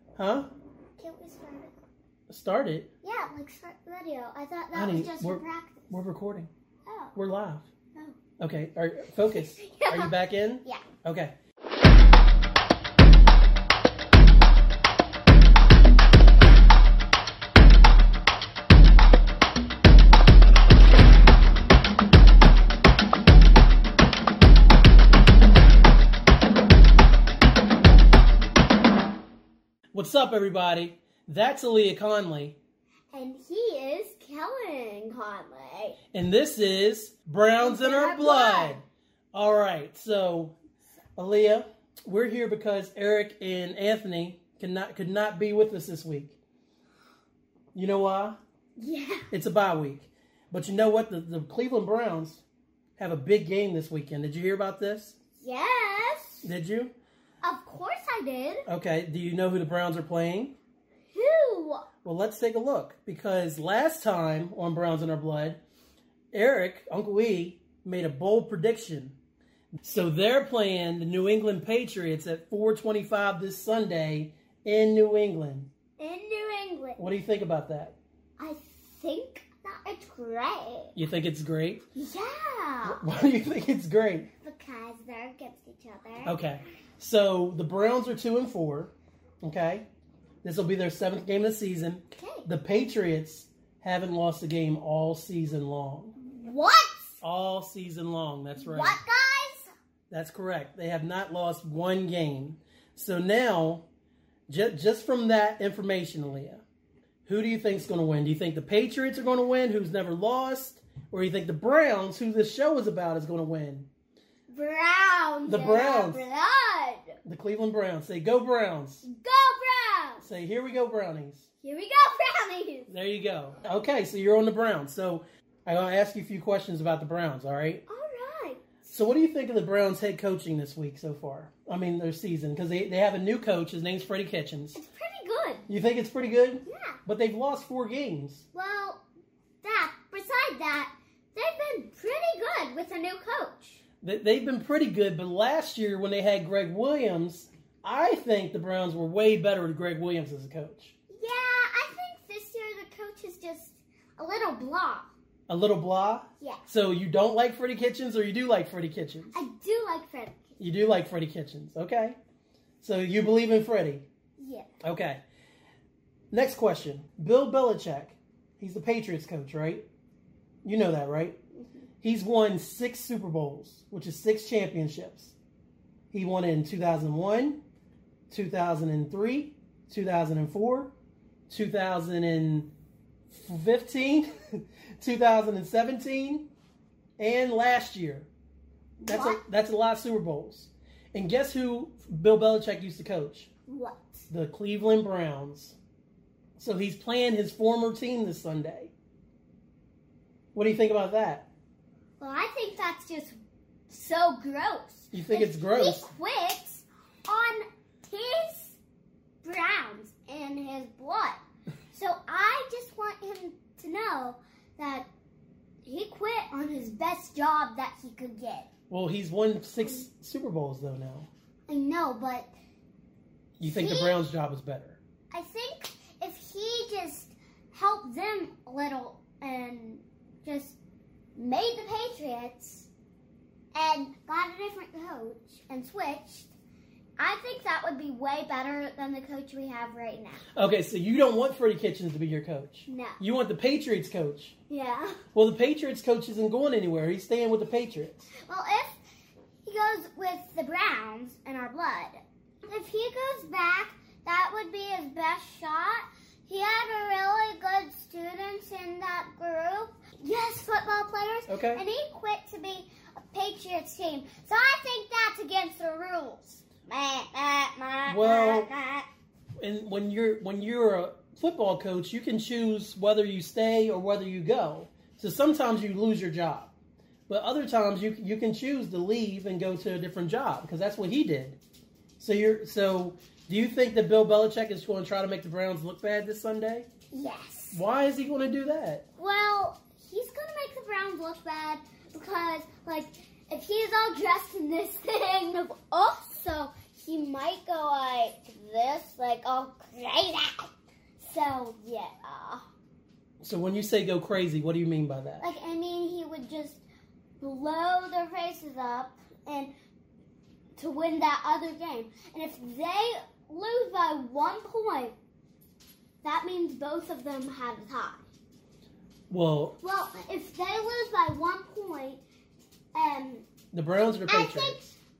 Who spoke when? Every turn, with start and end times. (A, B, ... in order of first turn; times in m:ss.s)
0:00.2-0:00.5 A
0:01.0-0:01.7 B
0:02.3-0:02.9 A
0:03.0-0:05.9 B
0:04.7-0:06.5 A
0:06.9-0:07.2 B
0:07.1-0:07.7 A
0:08.4-0:11.3 A
0:09.3-0:10.8 B
0:29.9-0:32.6 A
0:33.1-0:36.0 B
0:36.1-0:40.6 A
0:37.6-0:38.8 B
0:41.2-0:46.4 A
0:47.7-0:48.4 A
0:48.8-0:49.3 B
0:49.3-0:52.4 A
0:53.0-0:55.2 A
0:55.4-0:56.5 B
0:56.4-0:56.9 A
0:57.4-0:58.6 B
0:58.7-1:00.6 A
1:01.1-1:01.8 B
1:02.0-1:05.6 A
1:06.3-1:09.1 A
1:09.8-1:15.7 A
1:16.0-1:17.0 B
1:17.0-1:18.0 A
1:18.4-1:20.9 B
1:20.9-1:21.8 A
1:22.0-1:23.0 B
1:22.8-1:24.3 A
1:24.4-1:26.4 B
1:26.2-1:29.8 A
1:30.4-1:36.1 A
1:32.1-1:32.5 B
1:36.2-1:37.2 B
1:37.2-1:39.0 A
1:38.6-1:39.7 B
1:40.1-1:43.8 A
1:44.5-1:46.6 A
1:47.2-1:53.9 A
1:54.5-1:57.2 B
1:55.4-1:56.2 A
1:57.2-1:59.0 A
1:59.0-2:00.2 B
2:00.2-2:01.4 A
2:01.6-2:02.9 B
2:02.9-2:07.8 A
2:07.9-2:08.6 B
2:08.8-2:14.8 A
2:14.7-2:15.7 B
2:15.7-2:18.4 A
2:16.6-2:17.0 B
2:18.5-2:19.0 B
2:19.6-2:23.8 B
2:24.0-2:30.9 A
2:31.1-2:35.1 B
2:35.5-2:39.4 A
2:36.4-2:36.6 B
2:39.3-2:40.5 B
2:40.6-2:42.2 A
2:42.8-2:44.0 A
2:44.4-2:44.7 B
2:44.8-2:45.2 A
2:46.3-2:49.8 A
2:50.6-2:51.4 A
2:52.0-2:55.3 A
2:56.1-2:57.6 A
2:58.3-3:00.9 A
3:01.5-3:02.7 A
3:03.3-3:06.5 A
3:07.2-3:08.3 A
3:09.0-3:09.4 B
3:09.0-3:13.5 A
3:13.7-3:14.2 B
3:14.3-3:15.8 A
3:16.6-3:18.9 A
3:20.5-3:21.5 A
3:22.2-3:23.4 B
3:23.9-3:28.8 B
3:25.1-3:26.1 A
3:29.4-3:31.4 B
3:31.9-3:35.1 B
3:35.8-3:38.7 B
3:38.9-3:41.3 A
3:39.8-3:40.0 B
3:41.7-3:42.5 B
3:43.6-3:45.0 A
3:43.6-3:44.2 B
3:45.3-3:50.8 B
3:51.4-3:52.9 B
3:53.7-3:56.5 B
3:57.2-4:00.4 B
4:00.5-4:04.5 A
4:02.9-4:03.2 B
4:04.7-4:05.2 B
4:05.3-4:08.3 A
4:08.4-4:09.0 B
4:09.6-4:29.1 B
4:21.5-4:21.8 A
4:28.1-4:28.7 A
4:29.6-4:36.7 A
4:37.3-4:41.6 A
4:42.2-4:46.9 A
4:47.1-4:47.8 B
4:47.7-4:49.0 A
4:49.2-5:02.6 B
5:03.4-5:05.5 A
5:05.4-5:06.8 B
5:07.4-5:09.7 B
5:10.8-5:15.1 B
5:16.2-5:18.2 B
5:19.3-5:19.8 A
5:19.8-5:22.2 B
5:22.9-5:23.4 B
5:23.7-5:24.8 A
5:24.3-5:25.0 B